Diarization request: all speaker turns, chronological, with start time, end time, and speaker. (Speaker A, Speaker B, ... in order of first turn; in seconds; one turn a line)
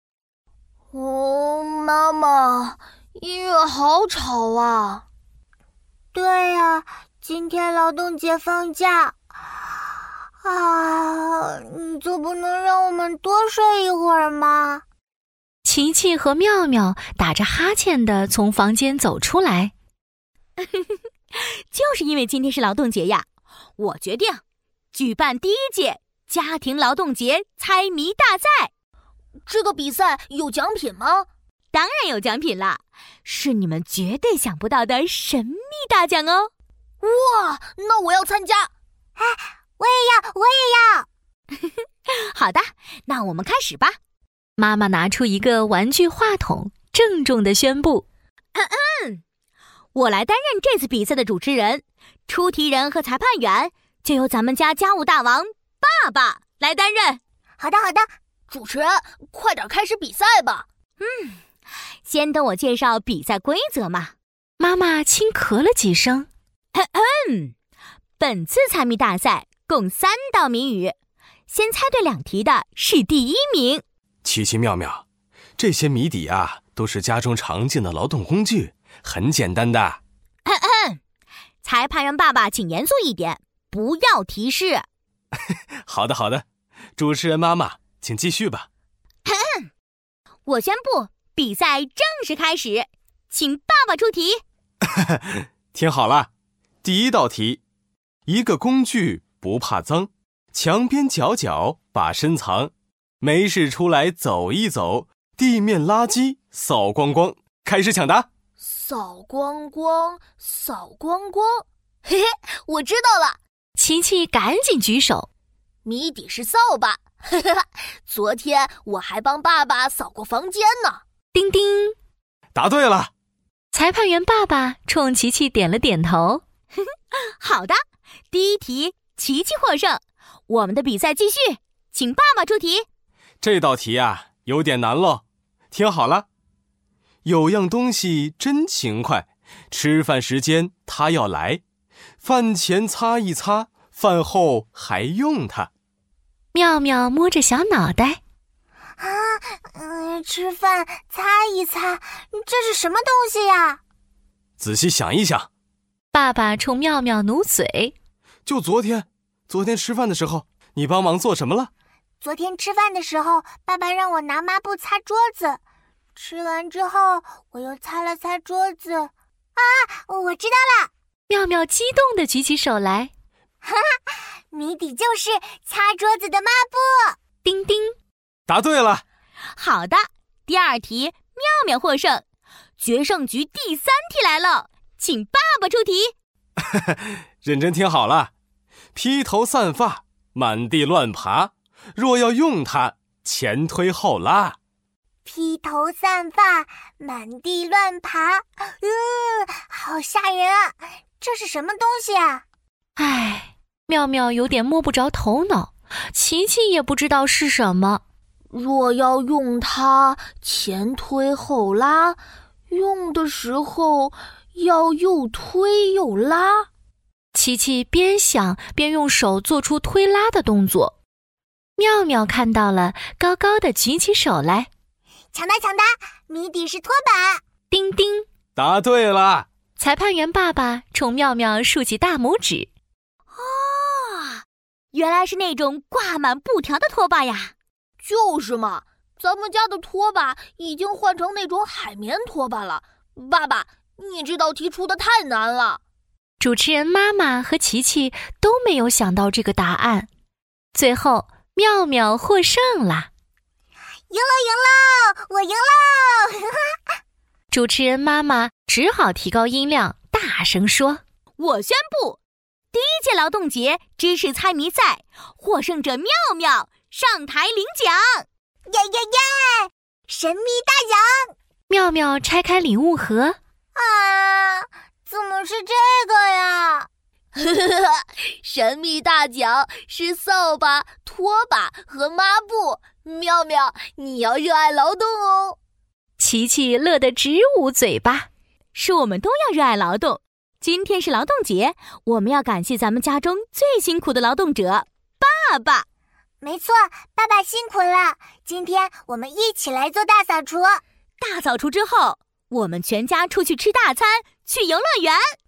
Speaker A: 0.9-5.0
Speaker B: 6.1-9.1
Speaker B: 10.4-14.8
Speaker C: 15.6-19.7
Speaker D: 20.6-23.2
Speaker D: 23.8-24.4
Speaker D: 24.9-28.7
Speaker A: 29.5-31.3
Speaker D: 31.7-36.5
Speaker A: 37.0-38.7
Speaker B: 39.2-41.1
Speaker D: 42.1-44.0
Speaker C: 44.6-48.0
Speaker D: 48.5-49.2
Speaker D: 49.9-57.2
Speaker B: 57.6-58.1
Speaker A: 58.5-60.6
Speaker D: 61.0-61.4
Speaker D: 62.0-64.1
Speaker C: 64.6-66.3
Speaker D: 66.7-67.5
Speaker D: 68.2-71.0
Speaker D: 71.5-73.8
Speaker E: 74.2-75.0
Speaker E: 75.6-80.0
Speaker D: 80.5-81.0
Speaker D: 81.6-84.9
Speaker E: 85.8-86.5
Speaker E: 87.0-88.7
Speaker D: 89.3-89.7
Speaker D: 90.5-94.4
Speaker E: 94.9-96.3
Speaker E: 96.8-97.6
Speaker E: 98.3-108.3
Speaker A: 108.6-113.4
Speaker C: 113.8-115.3
Speaker A: 115.8-121.0
Speaker C: 121.3-122.0
Speaker E: 122.5-123.1
Speaker C: 123.7-126.4
Speaker D: 127.4-127.8
Speaker D: 128.3-132.9
Speaker E: 133.4-136.3
Speaker E: 137.2-141.6
Speaker E: 142.2-145.7
Speaker C: 146.5-148.2
Speaker B: 149.0-153.8
Speaker E: 154.6-155.5
Speaker C: 156.1-157.9
Speaker E: 158.5-161.7
Speaker B: 162.2-165.6
Speaker B: 166.2-170.9
Speaker C: 171.3-173.1
Speaker B: 173.6-177.2
Speaker C: 177.4-177.9
Speaker E: 178.5-179.0
Speaker D: 179.6-182.2
Speaker D: 182.8-186.1
Speaker E: 186.6-188.3
Speaker E: 188.9-194.6
Speaker B: 195.2-202.4
Speaker C: 203.0-208.0
Speaker A: 208.5-216.7
Speaker C: 217.3-221.0
Speaker C: 221.8-224.7
Speaker B: 225.3-227.4
Speaker C: 227.7-228.3
Speaker E: 228.6-229.5
Speaker C: 229.8-232.7
Speaker D: 233.3-237.5
Speaker A: 238.0-245.8
Speaker C: 246.4-250.1
Speaker C: 250.7-253.1
Speaker B: 254.1-256.6
Speaker C: 257.5-261.0
Speaker D: 261.4-262.2
Speaker D: 262.7-268.2
Speaker B: 268.7-271.1
Speaker C: 271.7-273.4
Speaker B: 273.8-276.9
Speaker A: 277.3-285.6
Speaker C: 286.2-288.3
Speaker D: 288.7-295.9
Speaker B: 296.4-300.8
Speaker D: 301.2-305.3